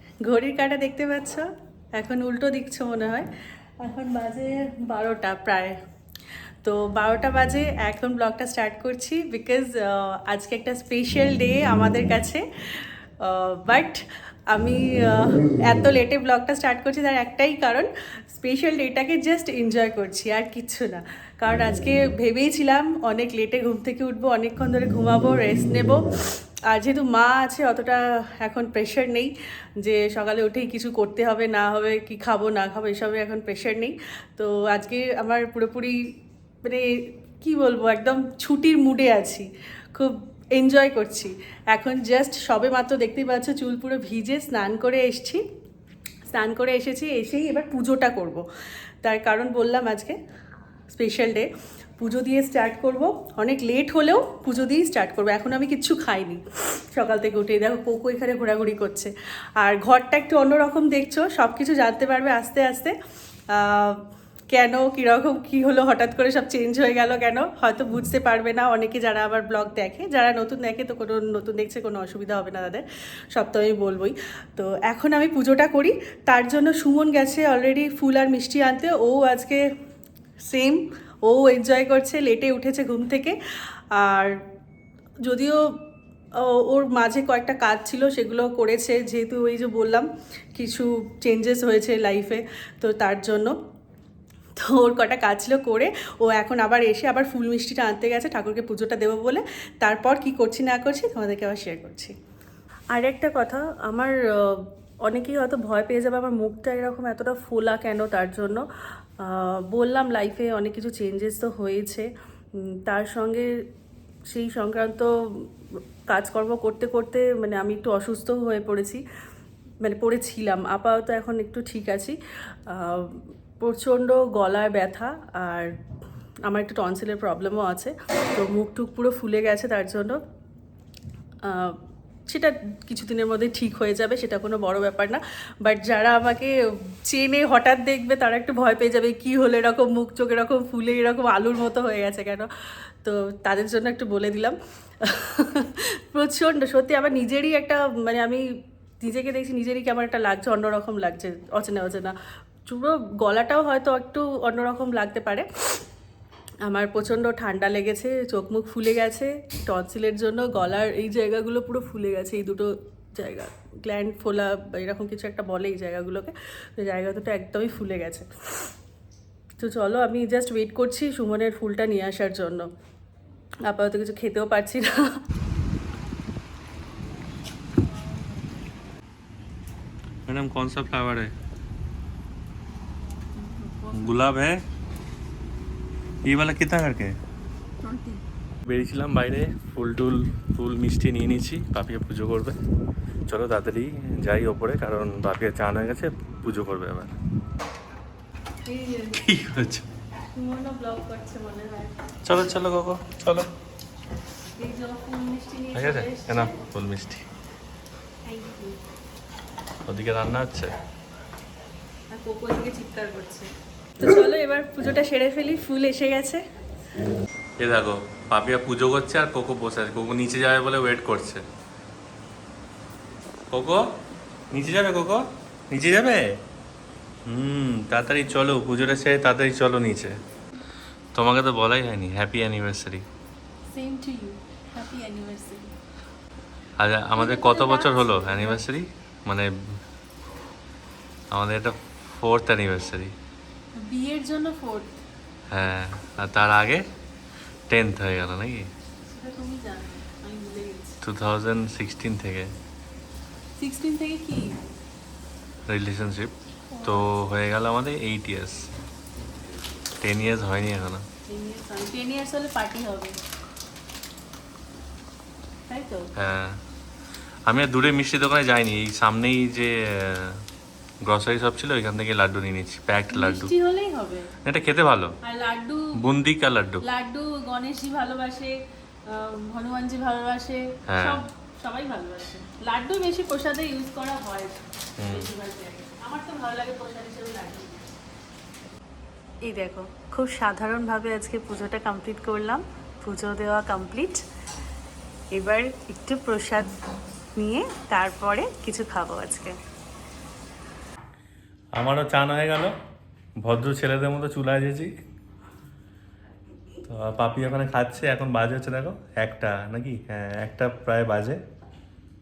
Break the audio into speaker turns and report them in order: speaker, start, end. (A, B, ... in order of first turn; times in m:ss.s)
0:00.2-0:03.3 A
0:03.8-0:05.8 A
0:06.6-0:45.4 A
0:46.3-0:48.4 A
0:49.0-0:50.2 A
0:50.9-1:02.9 A
1:03.5-1:19.6 A
1:20.5-1:23.4 A
1:23.9-1:24.3 A
1:25.2-1:25.7 A
1:26.4-1:33.5 A
1:34.6-1:42.1 A
1:42.9-1:48.6 A
1:49.2-1:52.0 A
1:52.7-1:53.5 A
1:54.3-1:55.5 A
1:56.1-1:59.0 A
1:59.8-2:02.2 A
2:02.7-2:05.7 A
2:06.5-2:10.2 A
2:11.4-2:11.8 A
2:12.3-2:16.5 A
2:17.0-2:22.5 A
2:23.0-2:28.5 A
2:29.0-2:32.1 A
2:32.6-2:35.8 A
2:36.6-2:48.7 A
2:49.6-2:52.7 A
2:53.6-2:55.2 A
3:00.3-3:01.3 B
3:03.4-3:04.2 A
3:03.9-3:04.6 B
3:06.2-3:07.2 B
3:07.8-3:08.2 A
3:08.6-3:12.5 B
3:13.3-3:17.2 B
3:18.6-3:19.2 A
3:19.1-3:19.9 B
3:20.3-3:22.0 A
3:22.2-3:23.5 B
3:24.6-3:26.6 A
3:25.7-3:27.2 B
3:28.2-3:28.8 A
3:29.9-3:30.7 B
3:32.1-3:36.4 A
3:37.6-3:41.4 B
3:43.5-3:43.8 B
3:44.5-3:46.4 B
3:47.3-3:50.2 B
3:51.1-3:53.0 B
3:53.7-3:55.7 A
3:56.8-3:59.5 B
3:57.2-3:58.6 A
4:01.3-4:03.1 B
4:03.8-4:05.0 A
4:05.5-4:06.8 B
4:07.7-4:08.7 B
4:09.1-4:11.0 A
4:11.0-4:12.5 B
4:13.6-4:14.6 A
4:15.7-4:16.3 B
4:16.7-4:17.1 A
4:16.8-4:18.7 B
4:20.0-4:21.0 B
4:21.3-4:23.2 A
4:25.7-4:26.1 A
4:26.2-4:26.6 B
4:27.5-4:30.4 B
4:31.0-4:33.5 B
4:33.1-4:34.3 A
4:34.4-4:35.1 B
4:35.2-4:35.9 A
4:36.0-4:36.8 B
4:36.8-4:38.5 A
4:39.1-4:47.8 A
4:40.9-4:41.2 B
4:45.0-4:45.3 B
4:49.4-4:54.2 A
4:55.3-4:56.7 A
4:57.4-4:59.6 A
5:01.7-5:02.7 B
5:03.4-5:04.9 B
5:06.9-5:11.4 B